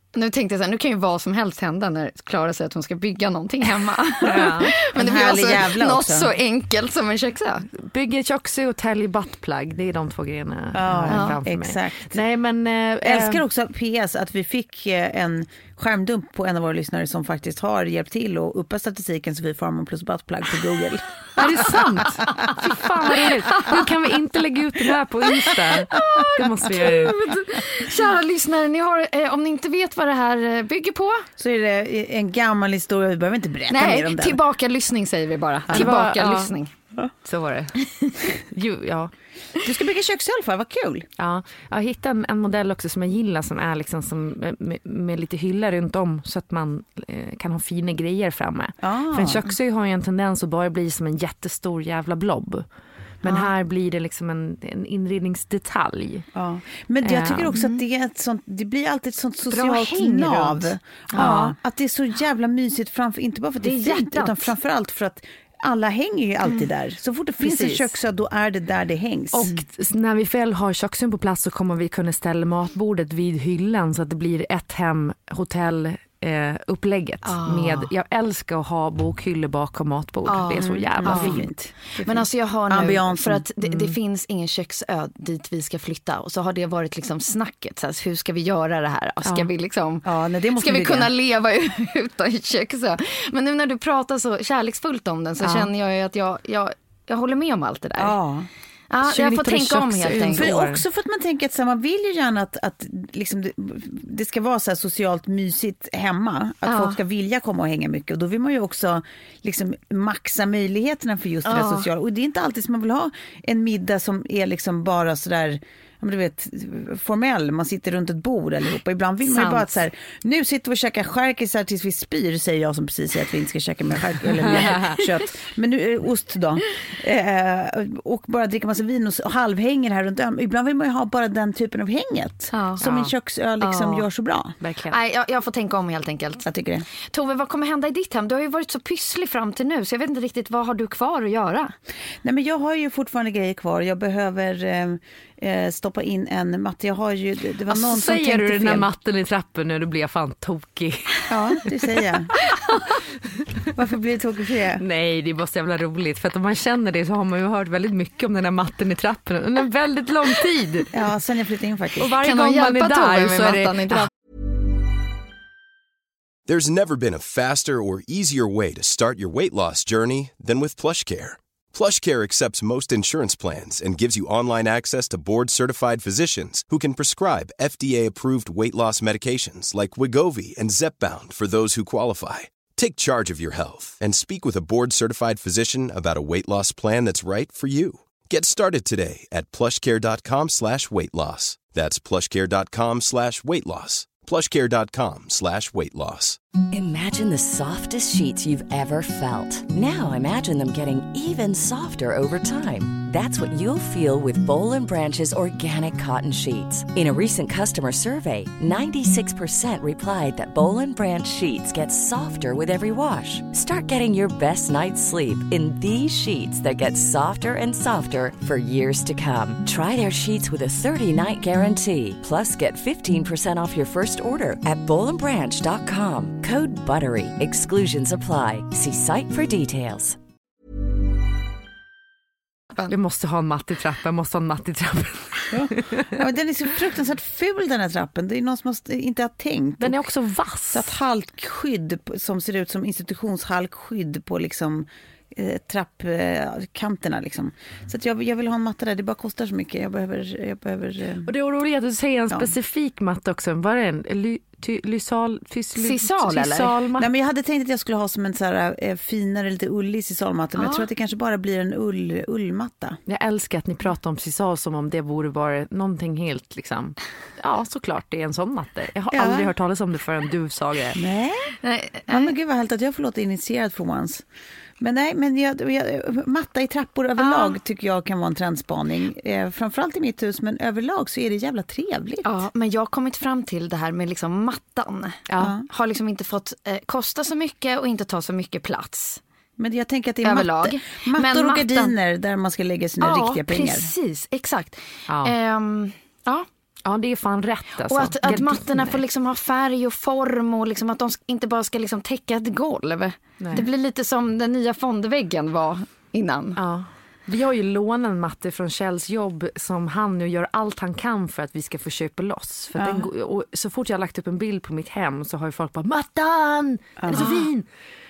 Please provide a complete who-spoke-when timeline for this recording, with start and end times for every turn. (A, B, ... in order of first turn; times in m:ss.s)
0:00.1-0:07.7 A
0:04.2-0:04.7 B
0:04.3-0:06.3 C
0:07.7-0:13.4 B
0:10.7-0:12.2 C
0:11.1-0:11.4 A
0:13.0-0:22.4 C
0:21.4-0:27.2 B
0:22.0-0:22.5 A
0:23.5-0:23.8 A
0:25.9-0:31.3 A
0:31.4-0:34.4 C
0:33.7-0:36.7 A
0:35.7-0:36.5 B
0:37.2-0:39.1 B
0:39.6-0:41.1 C
0:41.2-0:52.7 B
0:48.8-0:49.5 C
0:53.2-0:56.3 B
0:53.2-0:53.5 A
0:56.3-1:09.5 C
0:57.0-0:57.5 B
0:57.5-0:57.8 A
0:59.5-1:01.6 A
1:03.6-1:04.5 A
1:09.3-1:21.5 B
1:17.2-1:17.9 A
1:20.3-1:38.2 A
1:20.6-1:24.0 C
1:30.0-1:31.1 C
1:35.4-1:35.7 C
1:38.0-1:38.5 C
1:38.9-1:40.5 A
1:39.0-1:40.8 B
1:40.3-2:14.6 C
1:46.6-1:47.0 A
1:51.4-1:51.9 A
1:59.2-1:59.7 A
2:04.6-2:05.0 B
2:12.5-2:12.8 A
2:12.8-2:13.1 B
2:13.6-2:14.1 A
2:14.6-2:15.0 B
2:14.9-2:21.7 A
2:16.4-2:16.9 C
2:22.2-2:28.9 C
2:27.7-2:31.9 B
2:31.3-2:32.3 C
2:33.7-2:34.8 C
2:34.8-2:40.9 B
2:40.9-2:42.2 C
2:42.0-2:44.1 B
2:42.1-2:44.1 A
2:46.5-3:16.4 D
3:16.7-3:50.2 E
3:52.8-3:56.1 B
3:55.5-4:00.1 C
3:59.8-4:00.9 B
4:00.7-4:11.3 C
4:11.2-4:17.1 B
4:15.8-4:16.7 A
4:17.0-4:23.0 C
4:20.6-4:20.9 A
4:23.1-4:31.0 B
4:29.1-4:29.5 C
4:31.0-4:34.2 C
4:31.6-4:32.3 A
4:34.8-4:42.4 C
4:37.2-4:37.6 A
4:42.2-4:49.2 A
4:45.4-4:45.7 C
4:49.6-4:53.9 C
4:50.2-4:52.0 A
4:53.0-4:56.5 A
4:55.1-4:55.3 B
4:56.8-4:59.0 B
4:57.9-5:06.6 A
5:03.4-5:03.6 B
5:06.6-5:17.7 B
5:12.8-5:13.1 C
5:17.0-5:17.3 C
5:17.1-5:17.5 A